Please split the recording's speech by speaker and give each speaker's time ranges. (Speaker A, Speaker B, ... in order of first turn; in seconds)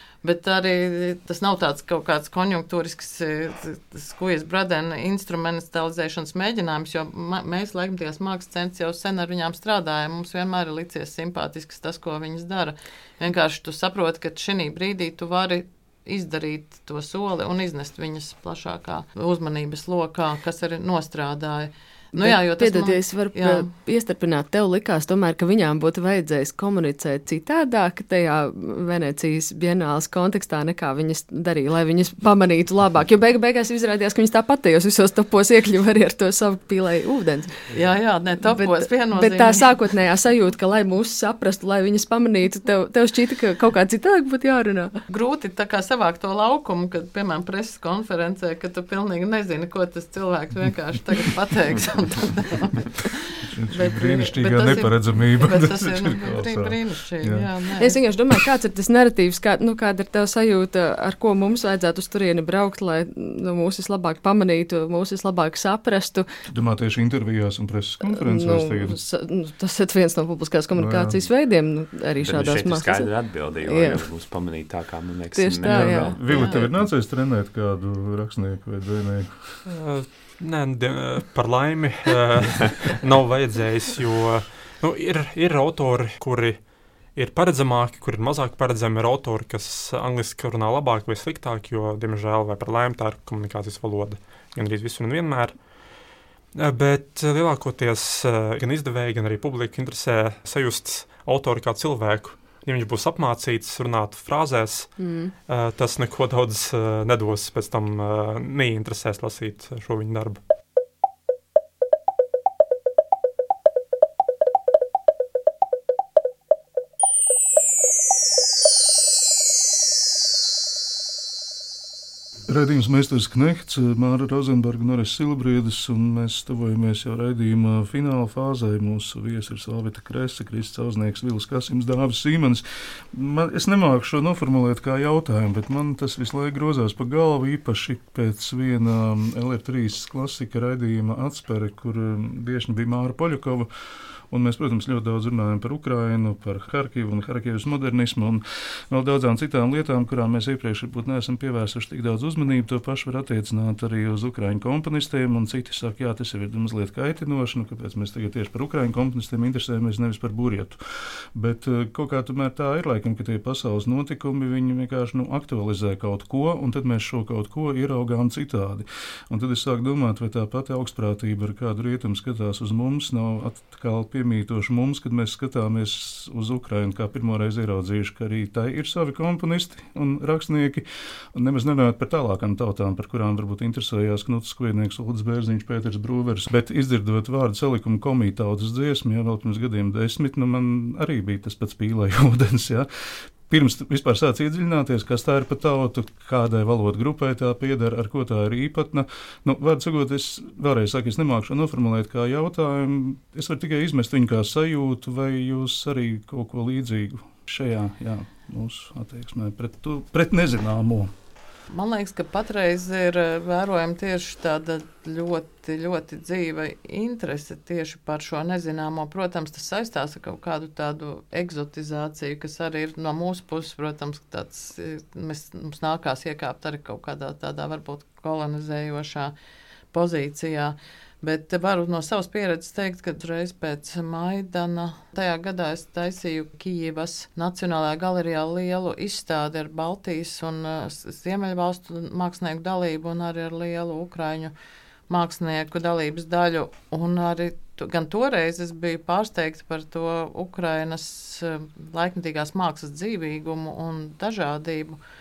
Speaker A: 0.2-23.7, 37.7-39.7, 45.1-58.0, 76.1-76.6, 211.7-229.3, 229.9-244.5, 245.1-255.0
Speaker B: 22.2-37.5, 38.5-44.9, 57.8-66.3, 68.0-74.1, 75.3-76.4, 105.0-105.3
Speaker C: 53.5-57.5, 66.5-69.0, 70.8-71.2, 75.6-79.6, 122.5-143.7, 144.3-160.8, 161.3-211.1
Speaker D: 72.2-76.7
Speaker E: 79.7-86.6, 87.2-95.6, 96.5-104.9, 105.5-110.4